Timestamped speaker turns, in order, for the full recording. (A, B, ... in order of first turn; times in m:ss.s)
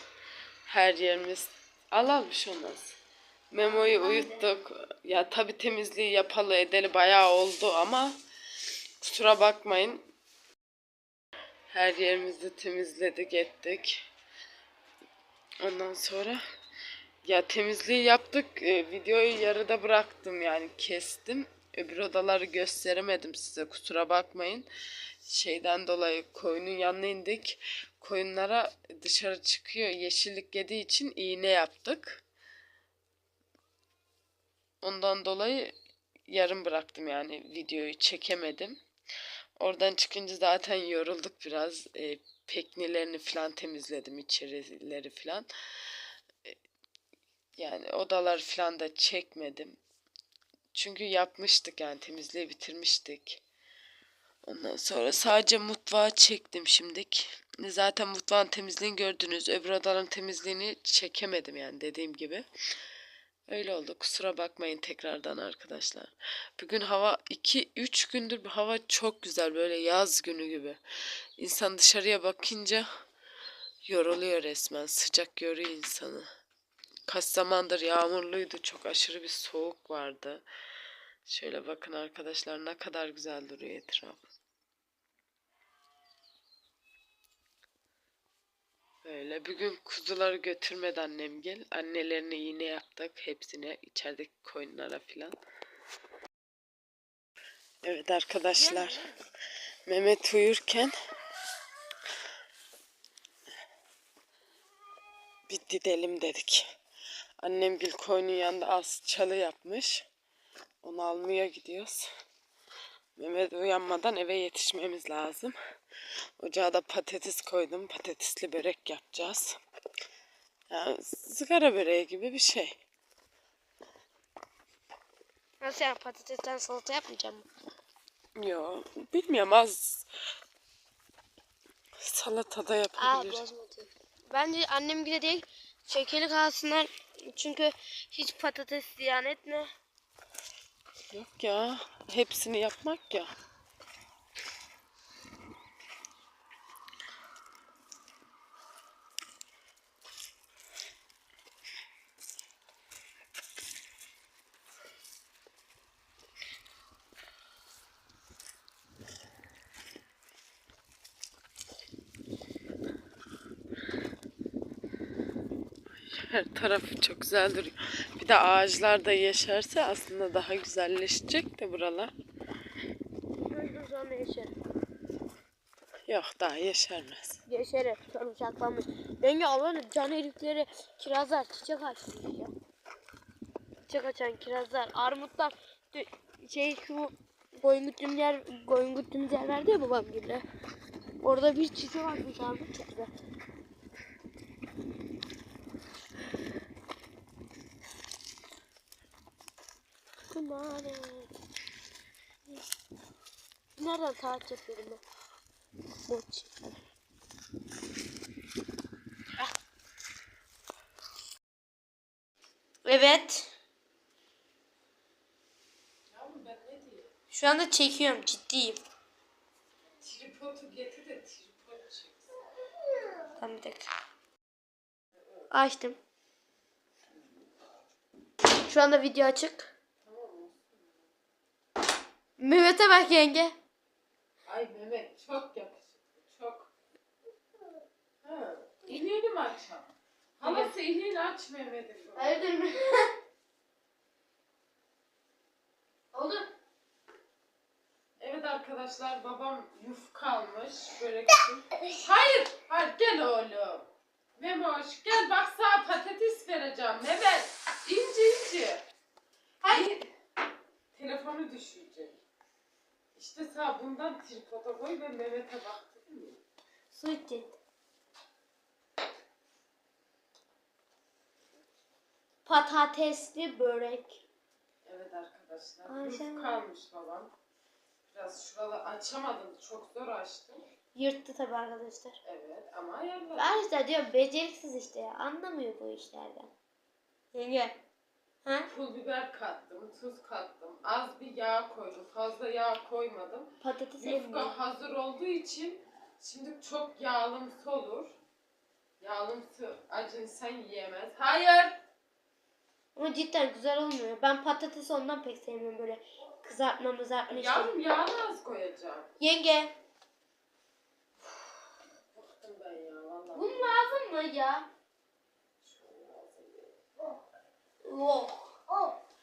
0:00.6-0:03.0 A
0:03.5-0:08.2 A
0:03.5-0:04.5 B
0:09.0-0:10.0 A
0:11.7-0:14.0 A
0:15.6-0:16.4 A
0:17.2-0:24.7 A
0:25.2-0:32.2 A
0:34.8-0:35.7 A
0:36.3-0:38.8 A
0:39.6-0:45.5 A
0:47.6-0:49.8 A
0:50.7-0:53.4 A
0:54.4-1:02.4 A
1:03.5-1:10.8 A
1:11.4-1:12.9 A
1:13.8-1:16.3 A
1:17.1-1:20.4 A
1:21.2-1:24.3 A
1:29.0-1:35.3 A
1:37.8-1:39.0 A
1:38.5-1:39.2 B
1:39.8-1:40.9 A
1:45.5-1:46.7 A
1:47.4-1:50.1 A
1:50.8-1:52.1 A
1:53.2-1:55.6 A
1:56.4-1:59.6 A
2:00.7-2:02.8 A
2:05.6-2:07.5 B
2:08.4-2:10.1 A
2:12.0-2:13.4 A
2:13.0-2:19.7 B
2:21.1-2:23.3 A
2:46.1-2:52.1 A
2:53.5-2:54.6 B
2:56.1-2:57.4 A
2:57.5-3:02.5 B
3:03.9-3:10.4 B
3:11.2-3:13.1 B
3:20.3-3:21.3 B
3:23.8-3:25.0 B
3:26.0-3:26.8 B
3:32.8-3:33.5 B
3:36.1-3:37.1 A
3:37.3-3:38.8 B
3:40.0-3:42.3 A
3:43.3-3:43.9 B
3:45.5-3:46.0 B
3:48.6-3:49.7 B
3:50.0-3:50.9 A
3:52.4-3:53.5 B
3:54.5-3:56.7 A
3:58.2-4:02.4 A
4:00.4-4:00.7 B
4:02.2-4:03.1 B
4:06.1-4:06.5 B
4:08.2-4:18.8 A
4:19.7-4:20.1 A
4:20.9-4:22.1 A
4:23.2-4:26.4 A
4:26.9-4:27.6 B
4:32.4-4:34.2 B
4:34.8-4:37.3 A
4:35.9-4:36.6 B
4:38.1-4:40.6 A
4:40.9-4:42.2 B
4:42.2-4:43.5 A
4:43.4-4:46.5 B
4:47.3-4:47.8 B
4:48.4-4:48.7 B
4:48.7-4:53.5 A
4:53.6-4:54.5 B
4:54.0-4:58.1 A
4:59.0-5:01.8 A
5:02.9-5:07.8 B
5:07.3-5:09.1 A
5:09.2-5:09.7 B
5:12.1-5:13.7 A
5:13.3-5:14.6 B
5:15.6-5:16.8 A
5:17.8-5:19.0 B